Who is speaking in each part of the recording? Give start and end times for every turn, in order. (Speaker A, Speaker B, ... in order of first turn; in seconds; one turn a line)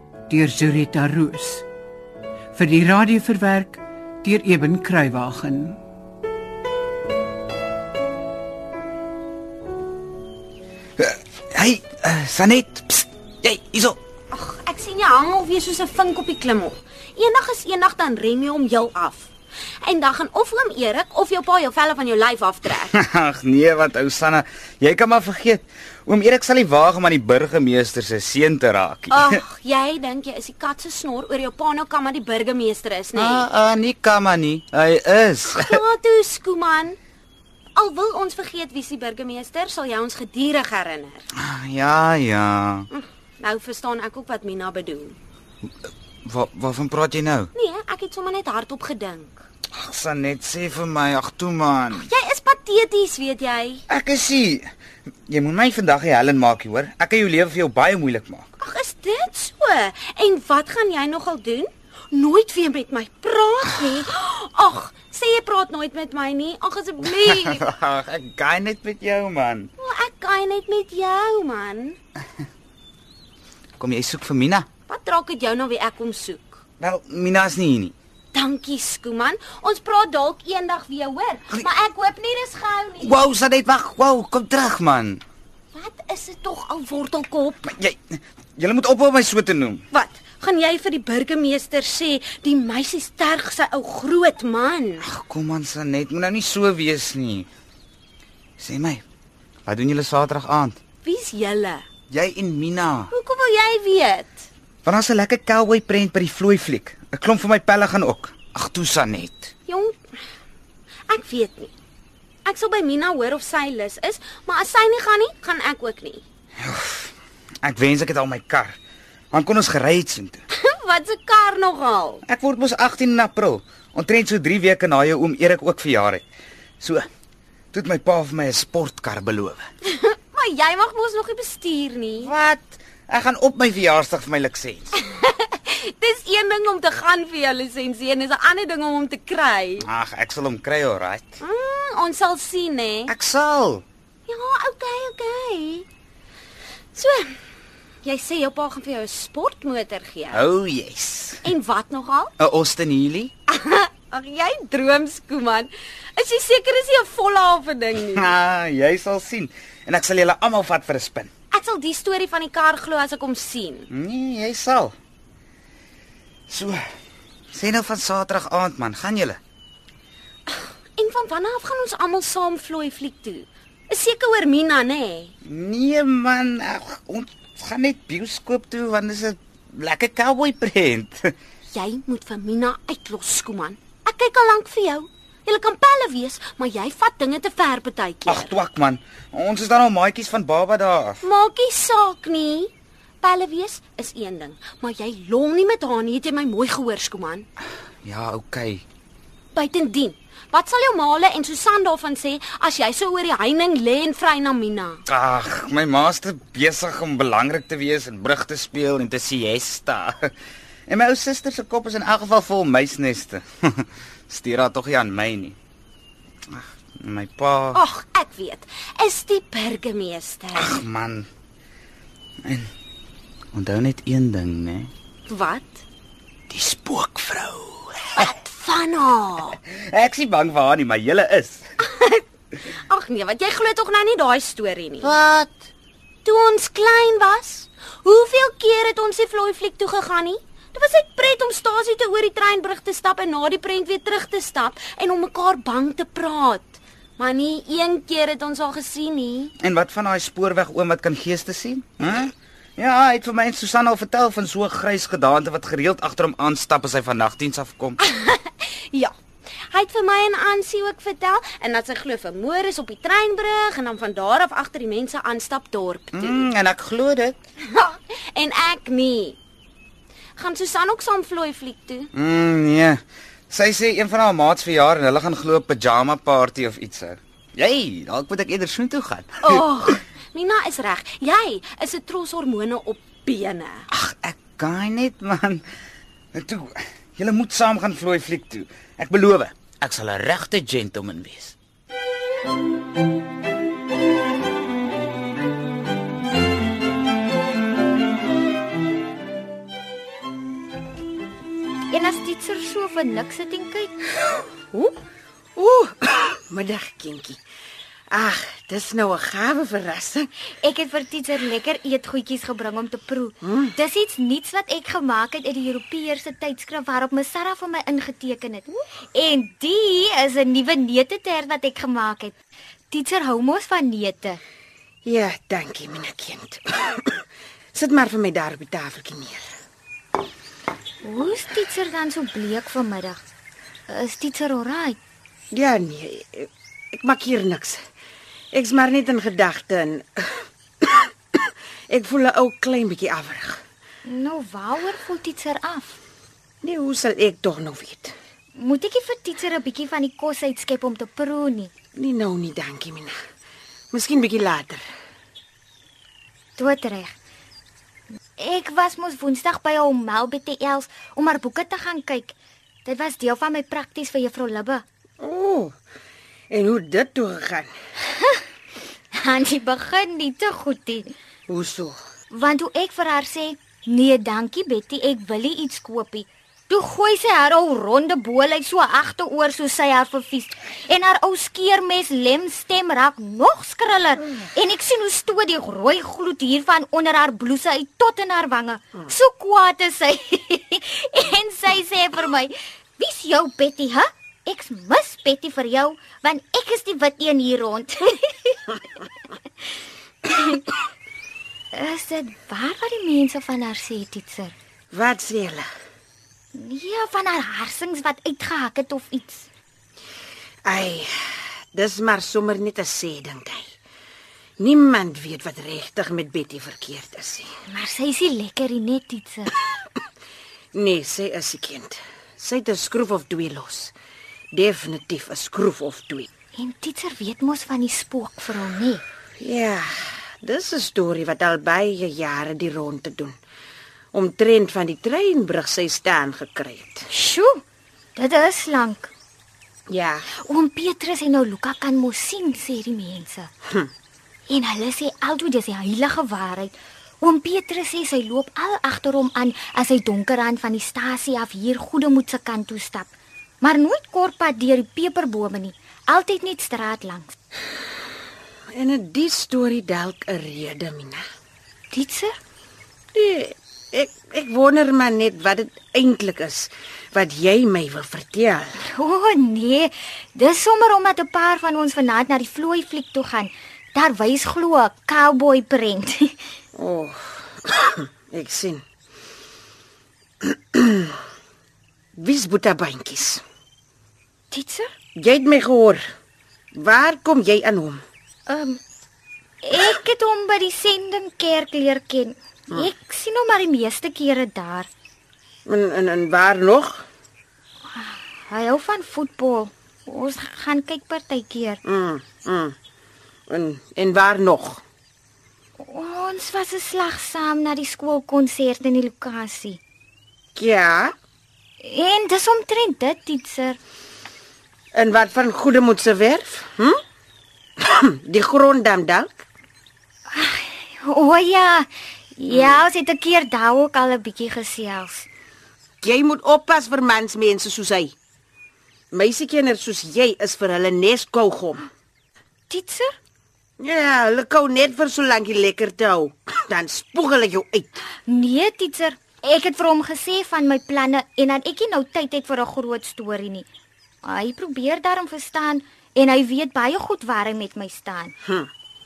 Speaker A: 0.3-1.7
Speaker A: 2.5-5.8
Speaker B: 11.0-14.0
Speaker C: 14.3-19.3
Speaker C: 19.8-22.9
Speaker B: 22.9-29.4
Speaker C: 29.1-33.5
Speaker B: 33.1-35.8
Speaker C: 35.5-37.0
Speaker C: 37.8-41.2
Speaker B: 41.4-42.9
Speaker C: 42.9-45.2
Speaker B: 46.2-47.5
Speaker C: 47.5-49.5
Speaker B: 49.7-52.1
Speaker C: 51.9-53.8
Speaker B: 53.9-54.7
Speaker B: 55.3-58.5
Speaker C: 58.6-67.7
Speaker B: 67.1-69.7
Speaker C: 69.8-72.0
Speaker B: 73.8-74.7
Speaker C: 74.9-76.6
Speaker B: 76.8-78.0
Speaker C: 78.3-83.2
Speaker B: 83.0-85.2
Speaker C: 85.7-87.7
Speaker B: 87.6-89.8
Speaker C: 89.9-95.0
Speaker B: 95.0-97.5
Speaker B: 98.6-99.0
Speaker B: 99.7-100.8
Speaker C: 101.0-101.8
Speaker B: 102.1-103.1
Speaker C: 103.1-104.5
Speaker B: 104.8-109.5
Speaker C: 109.7-110.0
Speaker C: 111.1-111.7
Speaker C: 112.5-116.2
Speaker B: 116.6-118.8
Speaker B: 119.3-120.4
Speaker C: 120.5-122.2
Speaker B: 122.2-126.3
Speaker B: 126.8-127.1
Speaker B: 127.7-129.7
Speaker C: 129.9-132.3
Speaker B: 132.2-135.0
Speaker C: 135.0-139.9
Speaker B: 139.8-141.4
Speaker C: 141.4-143.1
Speaker B: 143.1-143.8
Speaker C: 144.3-145.9
Speaker C: 146.9-147.4
Speaker C: 148.0-150.4
Speaker B: 150.3-151.4
Speaker C: 151.4-152.3
Speaker B: 152.4-153.3
Speaker C: 153.5-158.3
Speaker B: 158.1-161.3
Speaker C: 161.5-163.9
Speaker B: 163.9-164.9
Speaker B: 166.5-166.8
Speaker B: 167.5-169.4
Speaker C: 170.5-175.3
Speaker B: 175.4-181.3
Speaker C: 181.7-188.5
Speaker B: 188.3-191.2
Speaker C: 191.2-192.7
Speaker C: 193.2-197.5
Speaker B: 198.0-198.8
Speaker C: 199.5-205.0
Speaker B: 205.1-210.3
Speaker B: 210.9-215.6
Speaker B: 216.5-217.8
Speaker C: 217.7-220.8
Speaker B: 220.6-221.3
Speaker B: 223.5-224.9
Speaker C: 225.3-225.8
Speaker B: 226.5-228.2
Speaker C: 228.1-229.6
Speaker B: 229.7-231.7
Speaker C: 231.8-235.2
Speaker B: 235.0-235.7
Speaker C: 236.2-249.5
Speaker B: 249.6-258.0
Speaker C: 258.0-259.1
Speaker C: 259.7-266.5
Speaker B: 266.1-267.4
Speaker C: 267.7-269.4
Speaker C: 270.4-272.1
Speaker B: 272.1-279.6
Speaker C: 279.4-283.9
Speaker B: 283.9-285.6
Speaker B: 286.3-291.6
Speaker D: 301.9-304.0
Speaker E: 305.6-307.4
Speaker E: 308.1-310.3
Speaker D: 310.6-322.4
Speaker E: 313.4-313.8
Speaker D: 322.9-324.4
Speaker E: 325.1-329.4
Speaker D: 331.0-333.2
Speaker D: 333.9-335.0
Speaker E: 335.5-337.8
Speaker E: 338.5-343.6
Speaker D: 344.1-346.0
Speaker E: 346.6-348.1
Speaker D: 348.6-351.7
Speaker E: 352.0-353.1
Speaker E: 353.9-354.8
Speaker D: 356.6-357.1
Speaker D: 358.4-364.8
Speaker E: 365.2-365.7
Speaker E: 366.5-367.7
Speaker D: 369.1-371.1
Speaker E: 371.5-372.0
Speaker D: 372.3-398.7
Speaker D: 400.3-400.7
Speaker D: 401.7-404.6
Speaker E: 404.9-405.7
Speaker D: 406.5-409.5
Speaker E: 410.6-413.7
Speaker E: 414.6-417.5
Speaker D: 417.7-419.5
Speaker E: 420.7-423.9
Speaker E: 424.5-426.3
Speaker D: 426.6-429.0
Speaker E: 429.4-433.4
Speaker E: 434.1-437.1
Speaker D: 437.1-437.6
Speaker D: 438.2-439.1
Speaker E: 439.9-440.3
Speaker D: 440.4-443.5
Speaker D: 444.5-457.4
Speaker E: 458.7-461.2
Speaker D: 461.9-462.4
Speaker E: 463.1-468.8
Speaker D: 468.8-476.4
Speaker E: 476.8-478.8
Speaker E: 480.4-481.2
Speaker E: 482.2-483.4
Speaker D: 484.5-484.9
Speaker E: 485.2-486.0
Speaker E: 486.8-488.0
Speaker D: 488.5-488.8
Speaker D: 489.6-494.9
Speaker E: 495.7-497.1
Speaker D: 497.9-501.8
Speaker E: 501.9-502.8
Speaker E: 503.5-504.8
Speaker D: 505.8-509.8
Speaker E: 510.6-511.1
Speaker D: 511.8-513.8
Speaker E: 514.9-517.0
Speaker E: 517.8-519.5
Speaker D: 520.3-525.3
Speaker E: 522.5-522.8
Speaker E: 526.0-528.1
Speaker E: 529.1-531.9
Speaker D: 532.7-533.2
Speaker E: 533.8-538.0
Speaker D: 538.3-543.7
Speaker D: 544.2-548.4